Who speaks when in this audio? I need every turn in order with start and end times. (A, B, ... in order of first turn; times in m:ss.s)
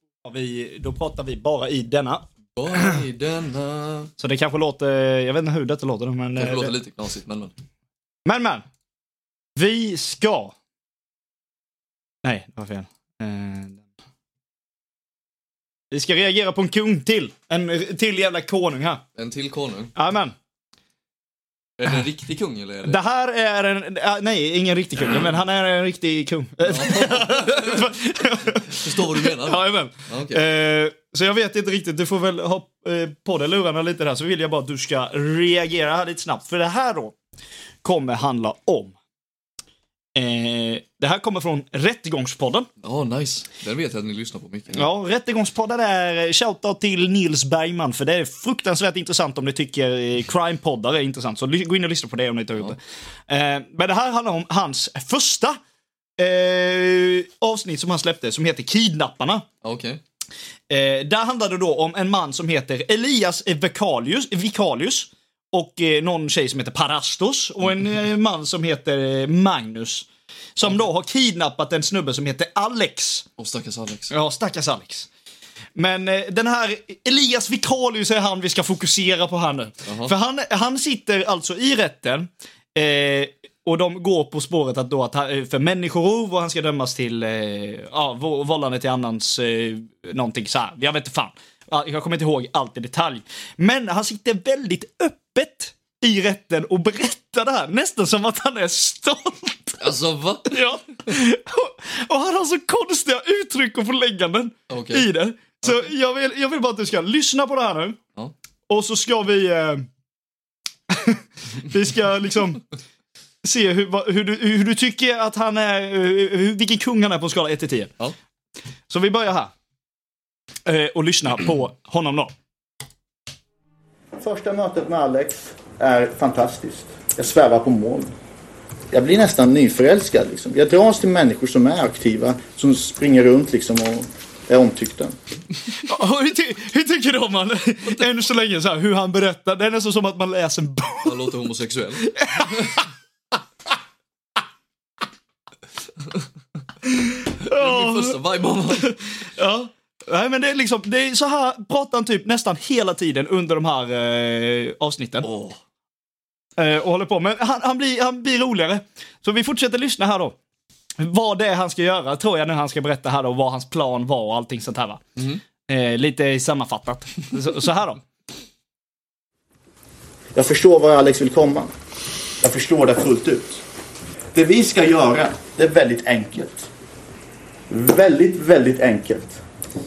0:00.2-0:02.2 A
0:02.6-0:04.1 B
0:04.2-0:06.7 A
0:06.4-0:07.5 B
0:08.2-0:08.6 A
0:09.6-0:10.5 A
0:12.2-0:13.8 A
0:15.9-0:19.0 A
0:19.1-0:19.9 B
0:19.9-0:20.3 A
0:21.8-0:23.0 B
0:22.8-0:37.1 A
0:26.6-0:28.0 B
0:28.5-0:30.4 B
0:37.8-0:38.9 A
0:40.1-0:42.7 A
0:42.8-0:44.9 B
0:44.7-0:55.6 A
0:56.2-0:59.5 A
0:59.6-1:00.0 B
1:00.7-1:13.2 A
1:13.4-1:14.1 B
1:14.1-1:15.1 A
1:15.8-1:39.8 A
1:19.8-1:20.1 B
1:39.8-1:40.6 B
1:40.5-1:48.0 A
1:44.7-1:45.1 B
1:48.7-1:49.8 A
1:50.9-1:52.6 A
1:53.4-1:57.9 A
1:58.9-1:59.5 A
2:00.6-2:02.3 A
2:04.2-2:08.1 C
2:08.9-2:15.2 C
2:15.7-2:21.2 A
2:21.0-2:22.8 B
2:22.1-2:22.8 A
2:27.0-2:35.3 A
2:27.4-2:28.9 B
2:35.2-2:35.6 B
2:36.6-2:40.4 A
2:41.0-2:45.0 A
2:45.2-2:45.4 B
2:45.6-2:48.0 A
2:50.3-2:51.7 C
2:52.4-2:53.6 C
2:54.3-2:56.7 C
2:57.7-2:59.4 C